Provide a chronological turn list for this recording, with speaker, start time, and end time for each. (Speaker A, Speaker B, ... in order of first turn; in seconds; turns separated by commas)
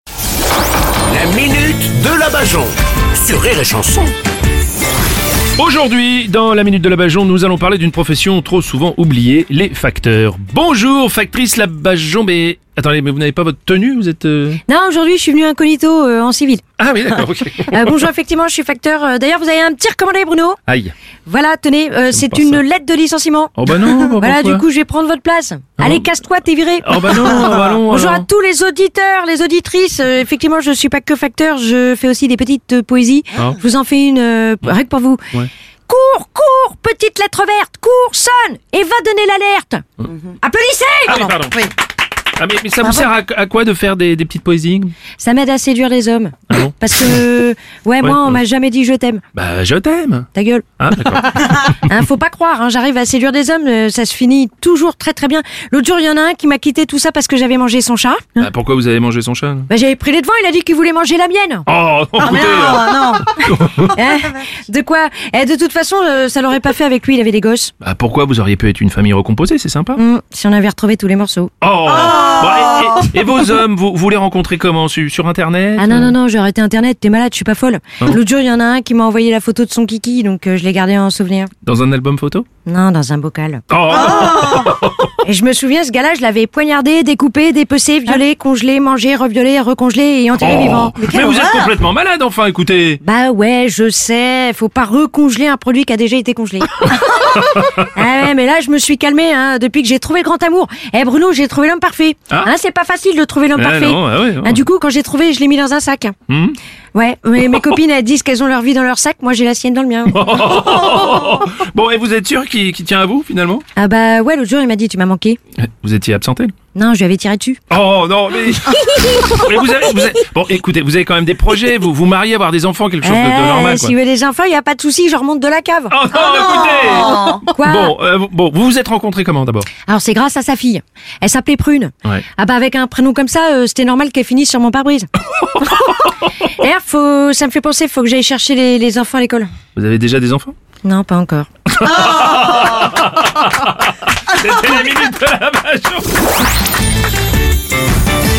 Speaker A: 1.1-4.1, Speaker B: 5.6-14.6, Speaker C: 14.7-16.6, Speaker B: 16.8-18.0, Speaker C: 17.5-20.6, Speaker B: 20.7-20.9, Speaker C: 21.2-35.3, Speaker B: 22.1-22.6, Speaker B: 23.6-24.6, Speaker B: 25.8-26.1, Speaker B: 26.8-28.2, Speaker C: 35.9-41.3, Speaker B: 41.0-41.7, Speaker B: 42.4-44.9, Speaker C: 45.2-49.2, Speaker B: 46.5-47.2, Speaker B: 48.0-48.4, Speaker B: 49.3-51.8, Speaker C: 50.3-50.6, Speaker C: 51.4-58.5, Speaker B: 58.4-59.7, Speaker C: 59.7-61.7, Speaker B: 61.7-64.0, Speaker C: 62.2-67.7, Speaker B: 67.8-70.0, Speaker C: 70.0-71.5, Speaker B: 71.6-76.1, Speaker C: 75.8-81.5, Speaker B: 81.6-82.5, Speaker C: 82.7-84.7, Speaker B: 83.7-85.2, Speaker C: 85.2-91.6, Speaker B: 90.4-93.0, Speaker C: 93.0-106.1, Speaker B: 96.9-97.9, Speaker B: 103.5-104.6, Speaker B: 106.3-106.6, Speaker C: 107.0-110.5, Speaker B: 110.1-113.6, Speaker C: 113.8-115.4, Speaker B: 115.6-116.5, Speaker C: 116.8-117.6, Speaker B: 117.7-123.9, Speaker C: 118.9-119.4, Speaker C: 123.0-128.0, Speaker B: 125.9-129.7, Speaker C: 129.9-135.1, Speaker B: 135.4-135.9, Speaker C: 135.6-139.5, Speaker B: 139.7-140.5, Speaker C: 140.8-141.5, Speaker B: 141.7-146.2